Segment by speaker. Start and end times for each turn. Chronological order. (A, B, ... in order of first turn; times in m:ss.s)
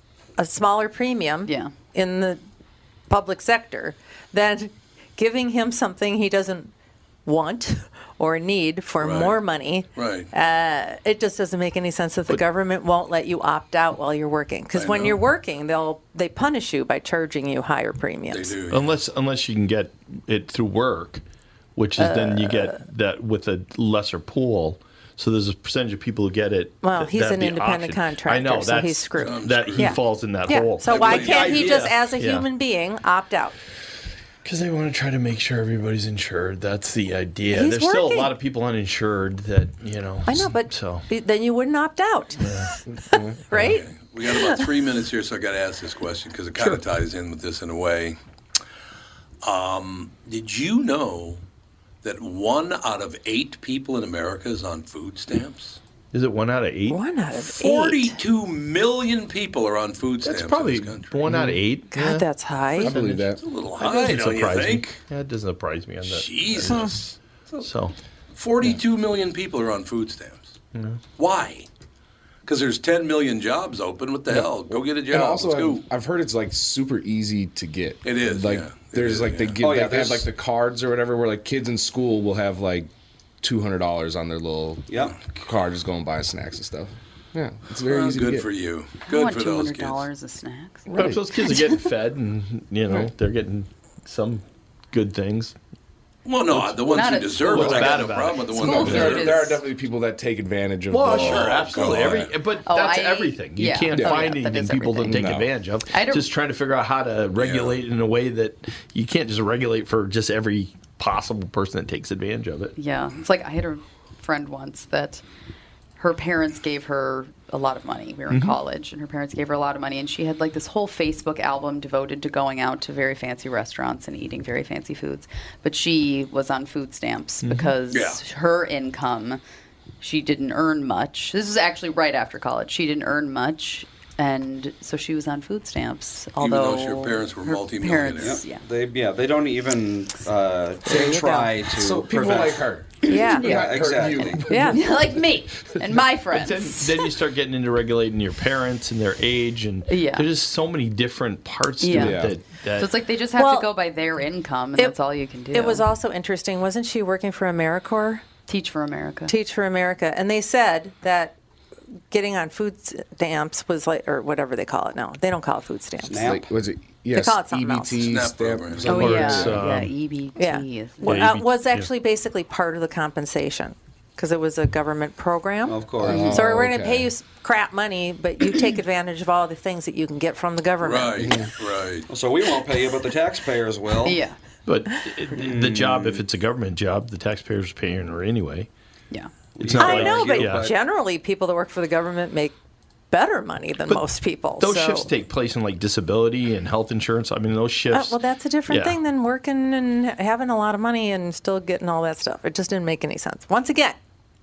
0:00.4-0:02.4 A
0:01.5-0:01.7 B
0:03.1-0:06.7 A
0:07.2-0:18.6 A
0:09.0-0:09.4 C
0:09.9-0:10.3 C
0:14.7-0:15.2 C
0:18.3-0:19.0 C
0:18.7-0:21.2 D
0:21.8-0:32.5 D
0:22.0-0:22.8 A
0:26.8-0:33.6 A
0:29.2-0:30.0 C
0:30.8-0:31.8 C
0:34.4-0:41.1 D
0:37.5-0:38.3 A
0:40.3-0:44.7 A
0:42.4-0:42.7 D
0:42.9-0:43.4 E
0:43.5-0:48.2 C
0:49.4-0:51.4 C
0:52.0-0:55.8 C
0:56.1-0:57.0 D
0:56.9-0:58.2 A
0:57.4-1:01.1 C
1:00.2-1:02.3 D
1:01.3-1:01.6 E
1:01.9-1:02.9 A
1:02.8-1:03.4 E
1:02.8-1:06.9 D
1:03.4-1:05.0 C
1:06.0-1:07.7 C
1:07.6-1:07.9 D
1:08.3-1:10.5 C
1:10.7-1:11.0 D
1:11.2-1:11.6 C
1:12.4-1:15.8 C
1:14.7-1:22.9 E
1:18.0-1:19.6 C
1:19.6-1:20.3 F
1:23.4-1:28.5 E
1:24.9-1:25.3 F
1:27.8-1:30.0 C
1:29.0-1:31.8 B
1:30.9-1:31.2 E
1:30.9-1:35.6 D
1:36.2-1:39.5 C
1:36.5-1:37.0 D
1:36.9-1:39.6 B
1:37.5-1:39.2 D
1:38.6-1:42.3 E
1:40.9-1:52.7 D
1:41.1-1:42.3 C
1:42.6-1:46.3 B
1:43.9-1:44.3 E
1:45.0-1:45.5 E
1:47.4-1:47.8 C
1:52.8-1:55.2 B
1:56.0-2:09.4 B
1:58.3-1:58.6 D
2:07.4-2:07.7 D
2:07.9-2:08.2 C
2:10.0-2:18.6 B
2:16.4-2:18.4 C
2:18.2-2:24.6 F
2:20.8-2:21.5 A
2:20.8-2:25.2 E
2:23.0-2:23.8 A
2:23.4-2:27.1 B
2:24.5-2:24.8 A
2:26.3-2:32.9 D
2:29.9-2:30.3 B
2:31.8-2:35.8 B
2:31.9-2:32.4 E
2:33.4-2:33.7 A
2:35.5-2:38.3 A
2:38.5-2:39.3 B
2:39.3-2:41.4 A
2:42.1-2:46.4 A
2:46.0-2:46.5 F
2:46.1-2:49.7 E
2:47.1-2:48.1 A
2:48.0-2:48.9 C
2:48.8-2:51.3 B
2:48.9-2:49.9 D
2:50.4-3:01.4 A
2:51.0-2:51.9 D
2:55.6-2:56.5 F
2:56.0-2:57.1 E
2:56.0-2:56.4 B
3:00.8-3:02.1 C
3:01.2-3:01.5 E
3:02.1-3:04.2 F
3:04.0-3:04.4 B
3:04.7-3:08.7 D
3:05.4-3:06.2 F
3:09.5-3:10.7 F
3:09.6-3:10.7 D
3:09.8-3:12.5 A
3:13.1-3:15.1 A
3:14.6-3:19.0 D
3:17.9-3:24.0 A